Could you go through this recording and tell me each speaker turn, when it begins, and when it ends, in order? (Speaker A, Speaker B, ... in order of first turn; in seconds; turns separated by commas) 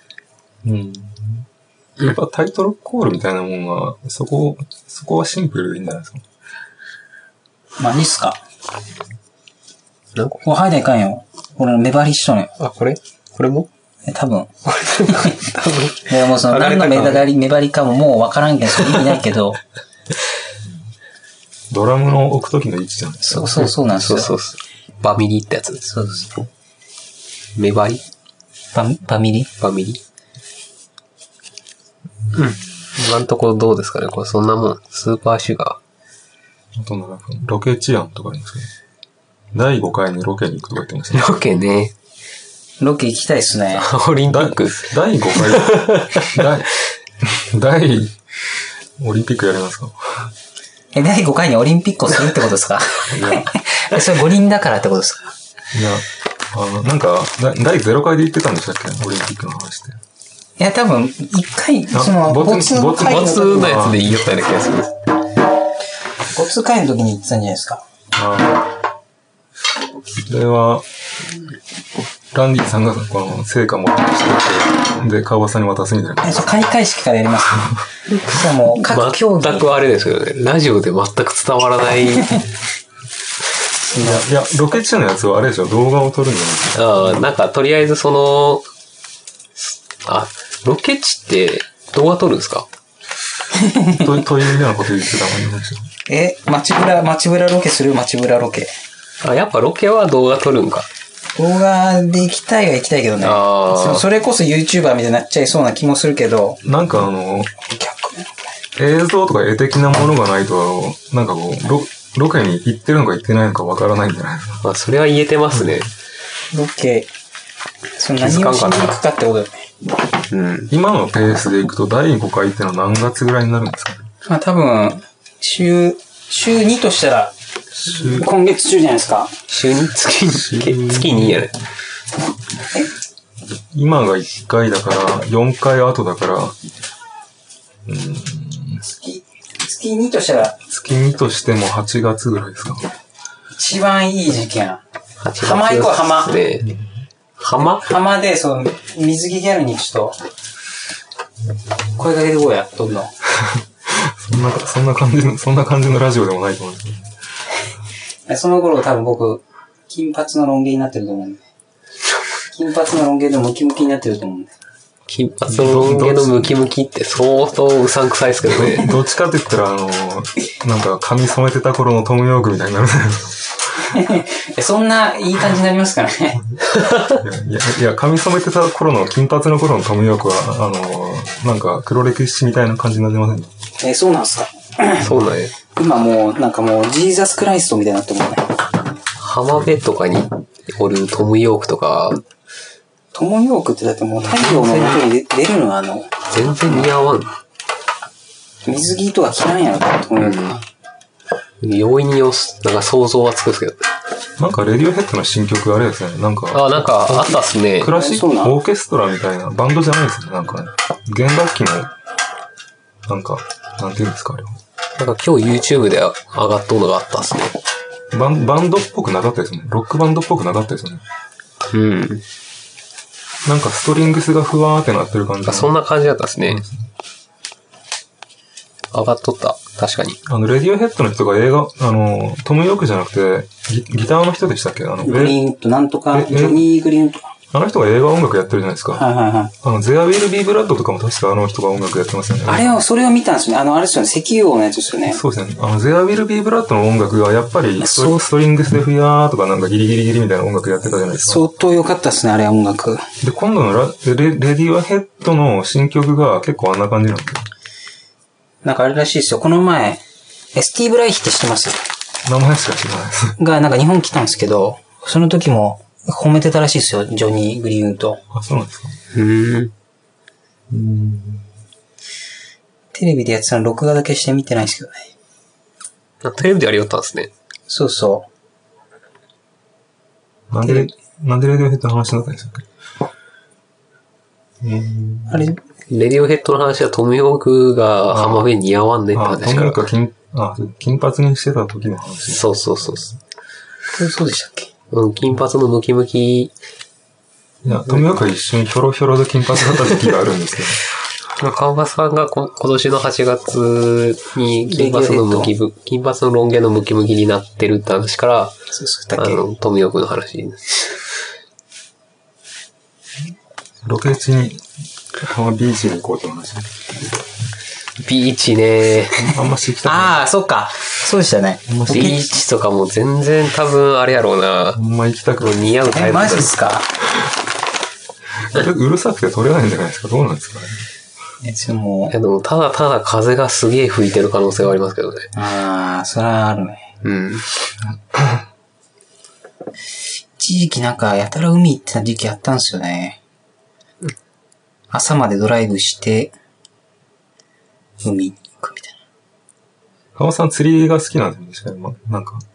Speaker A: 0.6-1.4, Speaker A: 2.0-6.2, Speaker B: 7.8-8.4, Speaker C: 10.1-10.4, Speaker B: 10.4-12.5, Speaker C: 12.6-13.7, Speaker B: 14.1-14.5, Speaker C: 14.7-17.3, Speaker B: 15.1-15.4, Speaker B: 16.1-19.6, Speaker A: 21.7-23.6, Speaker B: 23.2-24.3, Speaker C: 23.9-25.9, Speaker B: 25.9-26.4, Speaker C: 27.6-28.0, Speaker B: 28.7-29.5, Speaker C: 29.6-30.0, Speaker C: 32.3-35.8, Speaker A: 36.8-38.7, Speaker A: 39.5-41.4, Speaker C: 41.1-41.9, Speaker B: 42.8-43.9, Speaker C: 43.8-46.5, Speaker A: 44.3-46.7, Speaker A: 47.2-50.3, Speaker B: 50.9-55.3, Speaker A: 53.1-53.5, Speaker A: 55.7-60.0, Speaker B: 60.6-63.9, Speaker A: 61.9-64.2, Speaker C: 63.0-65.0, Speaker B: 66.3-67.8, Speaker A: 68.1-68.7, Speaker A: 70.2-70.9, Speaker A: 72.3-76.5, Speaker B: 76.2-79.7, Speaker C: 78.7-82.4, Speaker B: 83.8-84.3, Speaker A: 84.0-87.3, Speaker C: 86.8-88.7, Speaker C: 90.0-92.7, Speaker B: 93.5-94.1, Speaker A: 93.9-95.9, Speaker B: 96.1-98.7, Speaker C: 99.2-100.9, Speaker B: 101.4-106.6, Speaker C: 103.2-104.0, Speaker A: 106.6-107.5, Speaker B: 107.7-108.3, Speaker A: 108.8-114.6, Speaker C: 114.6-115.9, Speaker B: 116.5-117.1, Speaker B: 118.0-119.7, Speaker C: 118.2-119.0, Speaker C: 120.3-120.7, Speaker A: 120.7-124.1, Speaker B: 124.2-129.3, Speaker A: 127.8-128.3, Speaker C: 129.5-131.6, Speaker A: 130.3-131.5, Speaker A: 133.7-136.6, Speaker A: 137.9-138.8, Speaker B: 138.8-140.6, Speaker A: 140.7-142.9, Speaker B: 143.6-144.8, Speaker C: 145.2-146.7, Speaker B: 145.4-146.4, Speaker A: 146.6-146.9, Speaker C: 147.4-147.8, Speaker B: 147.6-150.2, Speaker B: 152.0-153.1, Speaker A: 153.3-157.1, Speaker B: 158.3-161.4, Speaker B: 162.5-164.5, Speaker C: 165.1-168.9, Speaker A: 165.5-166.5, Speaker A: 168.5-173.9, Speaker B: 173.9-176.4, Speaker C: 176.7-177.2, Speaker A: 177.1-183.5, Speaker B: 183.8-185.1, Speaker C: 185.0-185.5, Speaker B: 185.8-188.6, Speaker C: 189.2-192.2, Speaker B: 193.1-196.8, Speaker C: 194.3-195.0, Speaker C: 196.3-197.3, Speaker B: 198.7-200.6, Speaker C: 200.2-200.6, Speaker C: 201.6-203.8, Speaker A: 204.4-211.9, Speaker C: 206.5-207.9, Speaker B: 207.9-208.6, Speaker A: 213.1-214.6, Speaker C: 215.0-217.6, Speaker A: 218.1-221.0, Speaker C: 221.7-222.2, Speaker A: 223.4-225.8, Speaker C: 225.4-226.6, Speaker A: 226.5-226.9, Speaker C: 228.9-230.2, Speaker A: 230.3-235.4, Speaker B: 235.0-237.3, Speaker A: 236.1-236.7, Speaker A: 237.5-239.1, Speaker B: 238.9-239.5, Speaker A: 239.6-242.8, Speaker B: 242.5-245.2, Speaker A: 245.1-251.4, Speaker B: 247.8-248.2, Speaker B: 251.1-253.1, Speaker A: 253.2-257.4, Speaker B: 258.6-260.0, Speaker B: 260.5-261.8, Speaker A: 262.3-263.4, Speaker B: 263.4-268.2, Speaker A: 268.3-269.0, Speaker C: 269.1-269.7, Speaker A: 270.7-271.5, Speaker B: 272.9-275.1, Speaker C: 276.2-277.3, Speaker B: 277.7-278.3, Speaker A: 280.5-282.7, Speaker B: 280.6-280.9, Speaker A: 284.6-285.5, Speaker B: 285.3-285.6, Speaker C: 285.9-289.9, Speaker A: 288.1-288.4, Speaker A: 289.1-292.9, Speaker C: 292.3-293.2, Speaker B: 293.9-294.7, Speaker C: 294.9-296.5, Speaker A: 297.6-300.8, Speaker C: 301.4-308.6, Speaker B: 304.7-305.5, Speaker B: 308.7-309.4, Speaker C: 309.2-311.1, Speaker A: 313.9-316.9, Speaker C: 318.0-319.4, Speaker A: 319.1-320.2, Speaker B: 319.9-322.2, Speaker A: 321.7-322.3, Speaker C: 321.9-324.8, Speaker A: 324.7-325.7, Speaker C: 325.4-326.5, Speaker B: 325.9-326.9, Speaker A: 328.4-330.8, Speaker B: 331.4-332.1, Speaker C: 332.1-335.3, Speaker B: 335.4-336.9, Speaker C: 337.0-337.4, Speaker A: 337.9-338.4, Speaker B: 340.4-343.2, Speaker B: 344.9-346.3, Speaker B: 348.0-348.9, Speaker A: 350.2-352.4